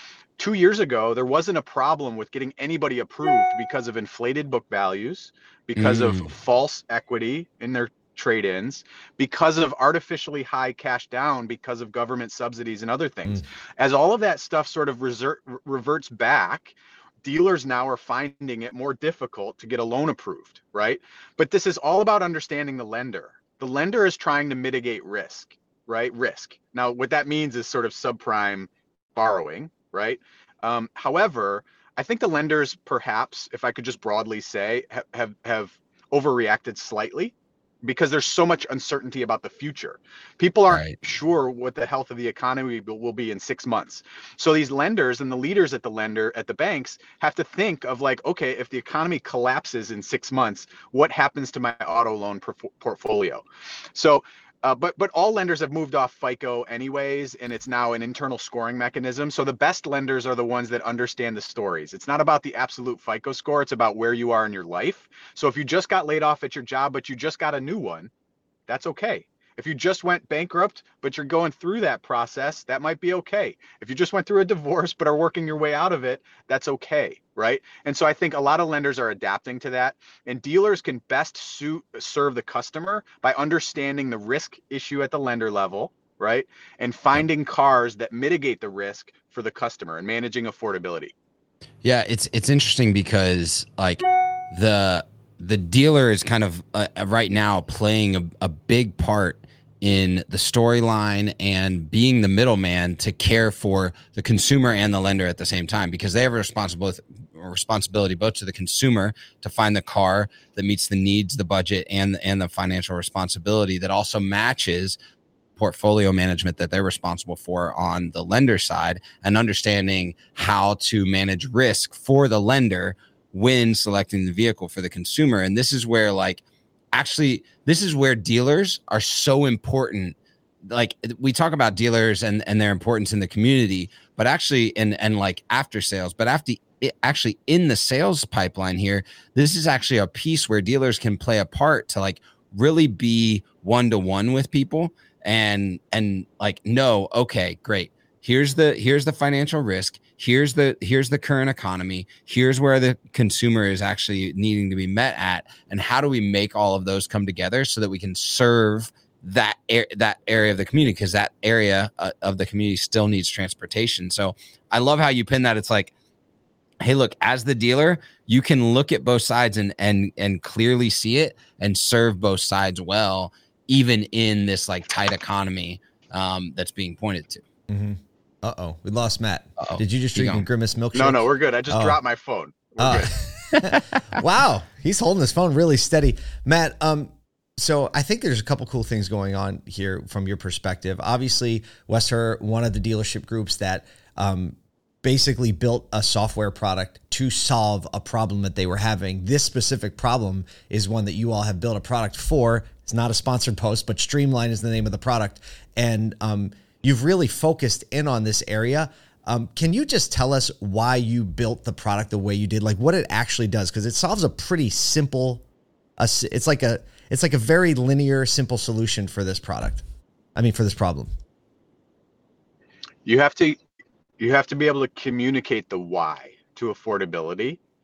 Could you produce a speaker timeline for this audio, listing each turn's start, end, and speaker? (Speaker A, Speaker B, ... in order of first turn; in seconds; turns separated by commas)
Speaker A: 0.4-68.1, Speaker B: 5.8-6.3, Speaker B: 40.7-41.0, Speaker A: 68.7-91.1, Speaker B: 91.8-115.0, Speaker B: 115.6-126.4, Speaker B: 126.9-165.9, Speaker B: 166.8-177.4, Speaker C: 177.7-182.0, Speaker B: 179.6-180.5, Speaker A: 180.9-183.1, Speaker C: 182.8-183.1, Speaker C: 183.6-215.4, Speaker C: 216.0-219.8, Speaker C: 220.3-221.1, Speaker A: 223.1-223.6, Speaker A: 224.2-227.6